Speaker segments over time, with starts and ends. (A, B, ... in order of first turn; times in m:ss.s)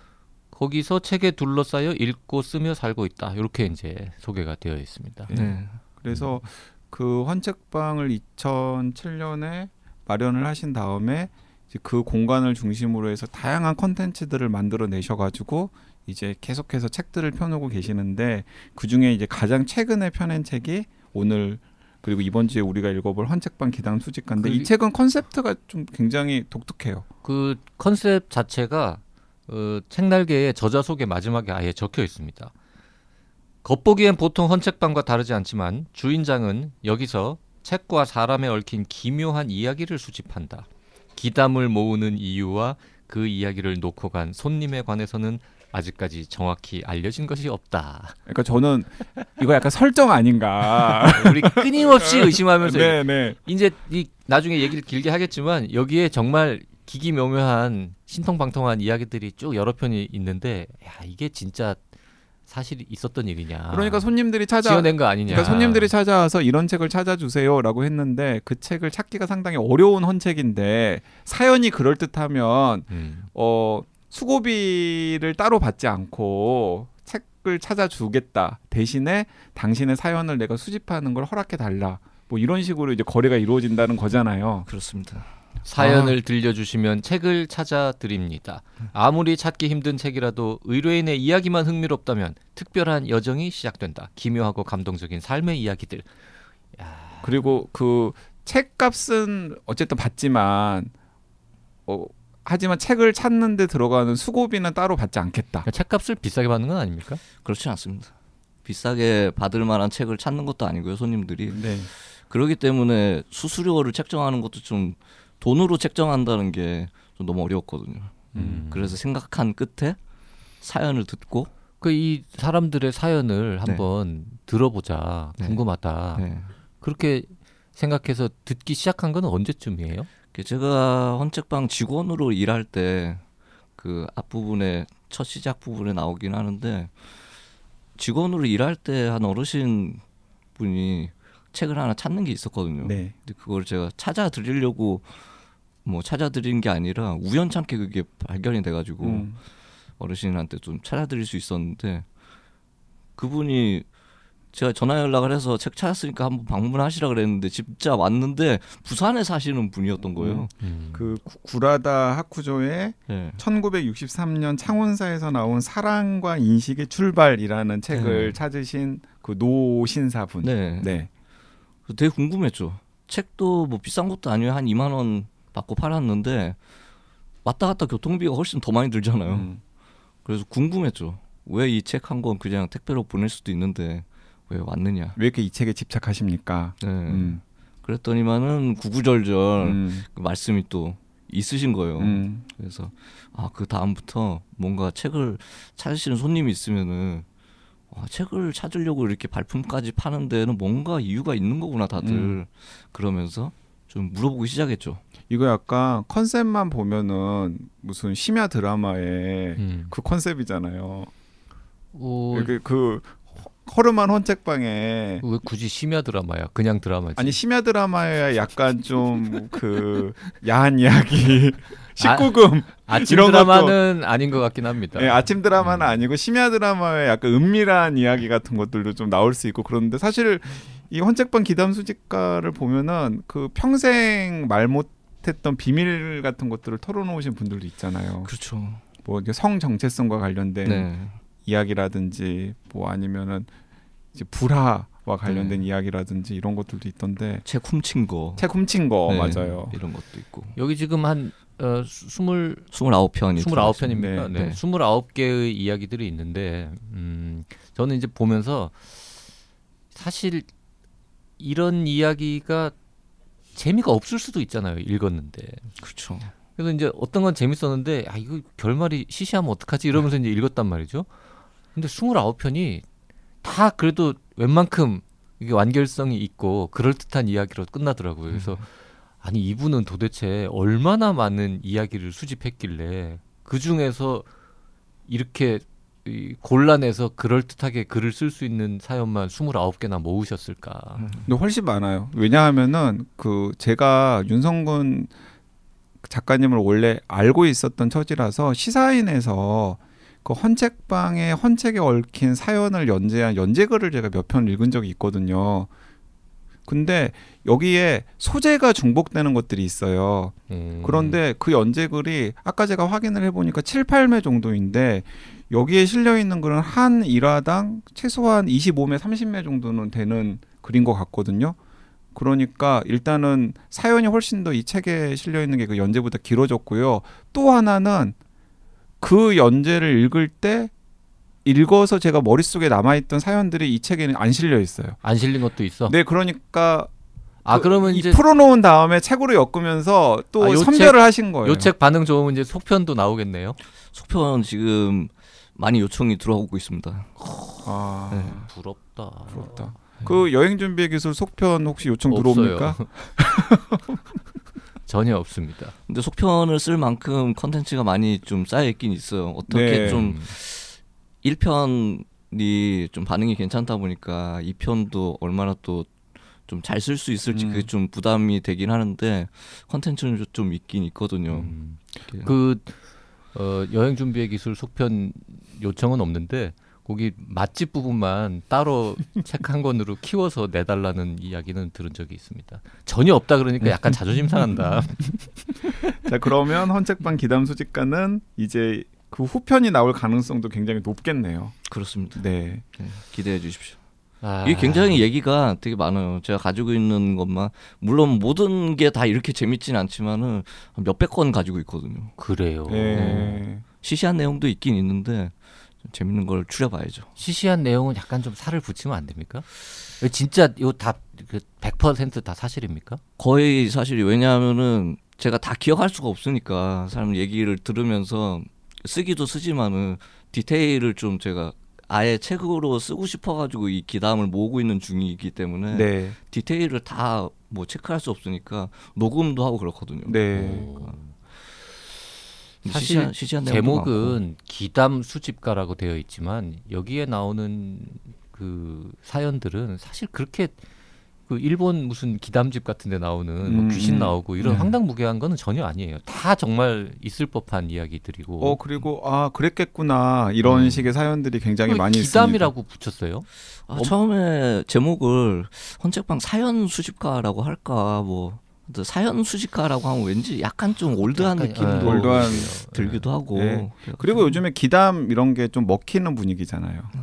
0:00.5-0:05.3 A
0:05.3-0:27.0 B
0:05.3-0:05.7 C
0:24.4-0:24.7 A
0:27.2-0:32.5 A
0:33.6-0:48.1 A
0:48.3-0:53.4 B
0:51.0-1:01.8 A
1:02.5-1:04.1 A
1:03.7-1:24.7 B
1:04.6-1:05.9 A
1:12.9-1:13.3 A
1:24.7-1:26.1 C
1:25.6-1:36.1 A
1:36.8-1:37.4 A
1:37.2-1:40.9 B
1:41.8-1:45.6 B
1:45.6-1:47.2 A
1:47.4-1:48.1 C
1:48.6-2:00.0 C
1:51.5-1:51.9 B
1:58.3-1:58.6 B
1:58.3-1:59.0 A
2:00.6-2:01.5 C
2:01.8-2:06.2 A
2:06.1-2:06.5 C
2:06.8-2:10.1 A
2:10.3-2:13.2 C
2:13.8-2:16.9 C
2:18.0-2:20.0 C
2:20.6-2:25.1 C
2:22.8-2:23.1 B
2:25.8-2:29.3 C
2:29.0-2:29.4 B
2:30.0-2:32.0 C
2:33.2-2:33.8 C
2:34.5-2:40.5 C
2:40.2-2:51.1 B
2:40.6-2:41.1 A
2:43.1-2:43.4 C
2:47.9-2:48.4 C
2:50.4-2:51.0 C
2:51.9-2:56.6 C
2:57.4-2:59.5 C
2:59.3-2:59.6 B
3:00.2-3:05.2 C
3:05.2-3:07.4 B
3:06.8-3:17.2 C
3:09.6-3:10.0 B
3:12.0-3:12.4 B
3:17.9-3:25.0 C
3:22.0-3:22.4 B
3:25.3-3:31.1 B
3:29.6-3:29.9 A
3:31.9-3:32.5 A
3:32.3-3:35.2 B
3:35.2-3:37.4 A
3:37.2-3:43.8 B
3:42.0-3:45.8 A
3:44.9-3:58.3 B
3:58.2-3:58.8 C
3:59.0-4:00.9 B
4:00.6-4:01.2 C
4:01.4-4:03.5 B
4:04.1-4:07.4 B
4:05.2-4:05.6 C
4:07.4-4:08.5 C
4:08.4-4:09.8 B
4:09.0-4:10.5 C
4:10.6-4:12.7 A
4:12.7-4:14.6 C
4:13.4-4:19.0 A
4:13.9-4:14.3 B
4:19.9-4:20.5 A
4:21.4-4:22.7 A
4:23.5-4:25.7 A
4:25.8-4:26.3 C
4:26.6-4:31.1 A
4:31.7-4:32.8 A
4:33.4-4:38.6 A
4:38.3-4:38.6 C
4:39.2-4:44.3 A
4:45.1-4:51.1 A
4:51.2-4:55.1 B
4:56.0-5:05.7 B
5:06.7-5:21.6 B
5:10.5-5:11.2 A
5:22.1-5:28.2 B
5:29.0-5:30.7 B
5:31.4-5:35.0 B
5:35.0-5:35.9 A
5:35.9-5:36.9 B
5:37.4-5:38.2 A
5:37.5-5:41.7 B
5:40.4-5:43.6 A
5:43.9-5:47.1 C
5:47.2-5:47.7 A
5:47.6-5:48.5 B
5:48.1-5:48.4 C
5:48.4-5:49.8 A
5:49.3-5:53.8 B
5:52.1-5:52.9 A
5:54.8-5:55.7 A
5:55.9-6:05.9 C
5:59.5-6:00.1 B
5:59.8-6:00.3 A
6:06.5-6:11.5 C
6:07.3-6:07.7 B
6:11.3-6:12.8 A
6:12.1-6:12.3 C
6:13.3-6:25.0 A
6:26.0-6:31.6 B
6:31.7-6:32.2 C
6:32.1-6:32.6 B
6:32.7-6:33.8 C
6:34.2-6:35.0 A
6:34.4-6:42.1 C
6:42.2-6:43.4 A
6:42.7-6:43.6 B
6:42.9-6:45.3 C
6:45.8-6:47.1 C
6:47.2-6:53.0 A
6:53.2-7:10.9 C
7:05.7-7:06.2 B
7:10.0-7:10.7 B
7:10.3-7:11.1 A
7:12.6-7:14.2 C
7:12.6-7:20.6 A
7:21.3-7:28.6 A
7:23.4-7:24.7 B
7:28.4-7:32.5 B
7:30.4-7:30.8 A
7:31.7-7:33.9 A
7:33.7-7:44.4 C
7:41.1-7:43.0 A
7:41.8-7:42.5 B
7:43.3-7:46.9 B